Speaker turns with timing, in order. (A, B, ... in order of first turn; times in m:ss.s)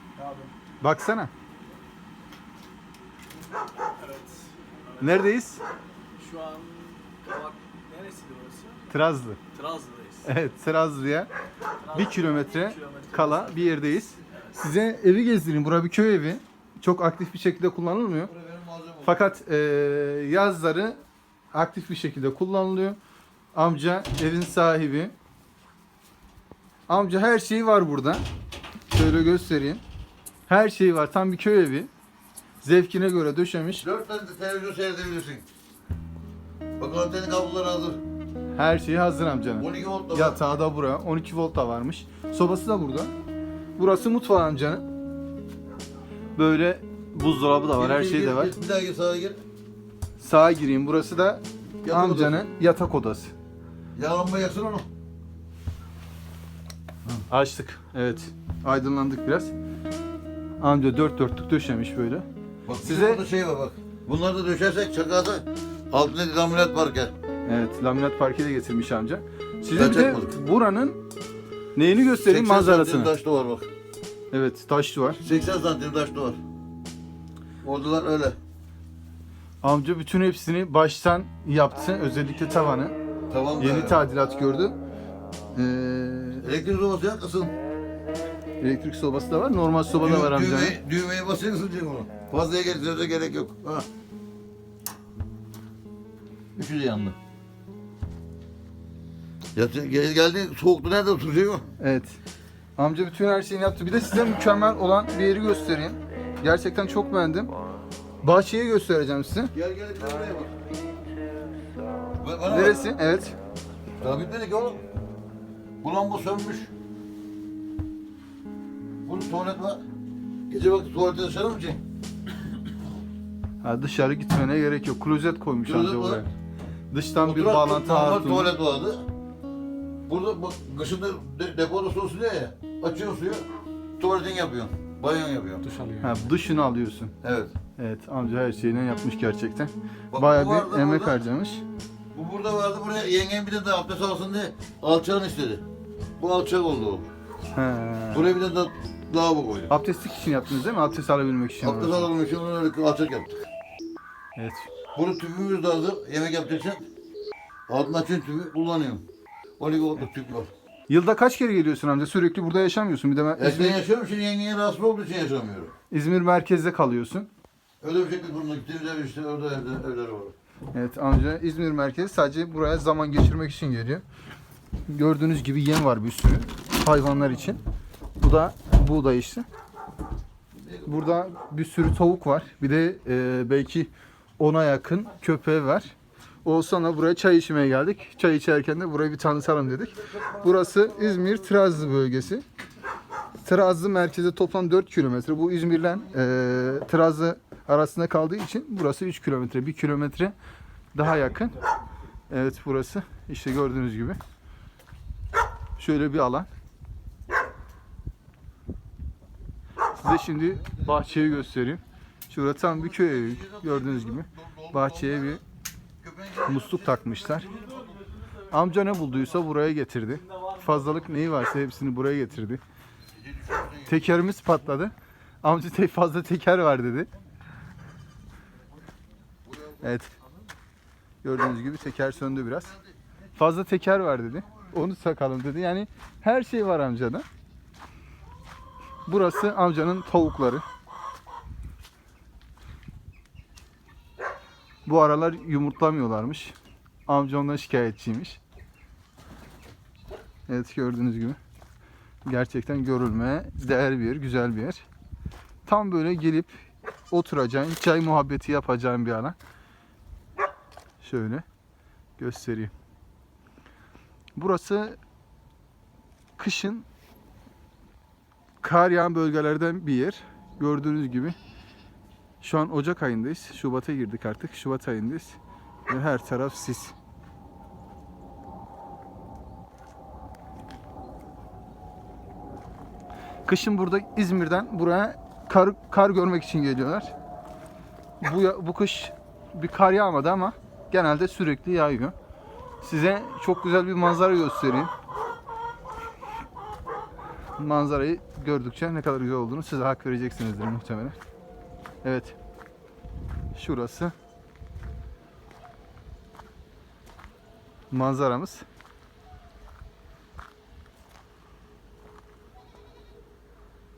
0:00.2-0:00.5 A
0:00.8-0:01.3 B
0:04.0-0:04.5 A
0:05.0-0:05.6 B
0:06.2-0:08.8 A
0:08.9-0:09.4 B
0:09.5-0:10.2 A
0:10.2-0:11.3 B
0:11.8-0:18.3 B
0:11.9-0:13.8 A
0:18.3-0:19.3 C
0:19.0-0:21.0 B
0:21.5-0:23.0 B
0:23.5-0:25.1 B
0:26.9-0:28.2 B
0:28.9-0:29.8 B
0:30.5-0:31.9 B
0:32.6-0:33.8 B
0:33.8-0:35.4 C
0:36.8-0:38.0 C
0:38.6-0:43.1 B
0:39.6-0:40.4 C
0:43.8-0:44.8 B
0:46.4-0:48.5 B
0:47.7-0:49.4 C
0:50.2-0:53.3 B
0:51.8-0:52.5 C
0:53.9-0:54.9 C
0:57.3-0:59.5 B
1:00.6-1:02.2 B
1:02.6-1:07.1 C
1:02.8-1:03.2 B
1:07.4-1:11.0 B
1:09.8-1:10.3 C
1:11.7-1:13.1 B
1:12.2-1:13.7 C
1:14.3-1:15.2 B
1:15.2-1:16.4 C
1:17.6-1:18.4 C
1:19.6-1:22.9 B
1:23.3-1:24.0 C
1:23.6-1:24.8 B
1:25.5-1:26.5 B
1:26.4-1:27.6 C
1:28.6-1:30.8 B
1:30.0-1:33.9 C
1:36.5-1:37.2 C
1:39.5-1:41.7 C
1:41.8-1:42.2 B
1:42.8-1:47.5 B
1:48.2-1:49.5 B
1:49.5-1:50.5 C
1:52.2-1:52.8 C
1:52.5-1:53.3 B
1:54.0-1:54.8 C
1:55.8-1:56.7 C
1:59.0-1:59.8 C
2:00.5-2:01.8 C
2:03.6-2:06.3 B
2:05.6-2:06.2 C
2:06.9-2:08.5 B
2:07.2-2:09.1 C
2:10.1-2:13.5 C
2:14.0-2:15.6 C
2:15.6-2:16.2 A
2:16.0-2:17.1 B
2:17.2-2:17.5 C
2:17.8-2:21.6 B
2:20.1-2:21.2 C
2:22.1-2:25.6 C
2:26.2-2:27.1 C
2:27.5-2:28.3 B
2:28.1-2:29.7 C
2:29.7-2:32.1 B
2:31.6-2:33.4 C
2:34.4-2:34.7 B
2:34.9-2:36.8 C
2:37.7-2:39.0 C
2:39.6-2:40.5 C
2:40.9-2:43.8 B
2:43.4-2:45.7 C
2:45.9-2:47.3 B
2:47.8-2:50.3 C
2:50.7-2:54.0 B
2:54.9-2:57.6 B
2:58.2-2:59.4 B
3:00.5-3:00.9 C
3:00.8-3:12.4 B
3:13.4-3:20.3 B
3:20.9-3:21.6 B
3:22.3-3:24.2 B
3:25.8-3:26.5 B
3:30.0-3:35.4 B
3:30.5-3:31.4 C
3:32.6-3:35.4 C
3:36.0-3:37.9 C
3:36.4-3:37.5 B
3:37.5-3:38.4 A
3:38.5-3:42.6 B
3:40.3-3:40.8 A
3:43.1-3:44.1 C
3:43.8-3:47.1 B
3:49.4-3:50.0 C
3:49.8-3:50.1 B
3:51.2-3:52.7 B
3:52.0-3:53.0 C
3:53.4-3:57.2 B
3:59.0-4:00.6 B
4:04.8-4:06.6 B
4:07.1-4:08.4 B
4:10.5-4:11.4 B
4:12.2-4:14.8 B
4:15.6-4:16.5 B
4:17.1-4:19.4 B
4:21.0-4:21.4 B
4:22.2-4:22.7 B
4:24.4-4:25.0 B
4:26.4-4:26.9 B
4:28.6-4:31.4 B
4:32.4-4:36.9 B
4:43.4-4:47.1 B
4:48.2-4:52.1 B
4:52.8-4:54.9 B
4:57.6-5:01.2 B
5:02.0-5:02.4 B
5:03.5-5:04.1 B
5:07.9-5:08.6 B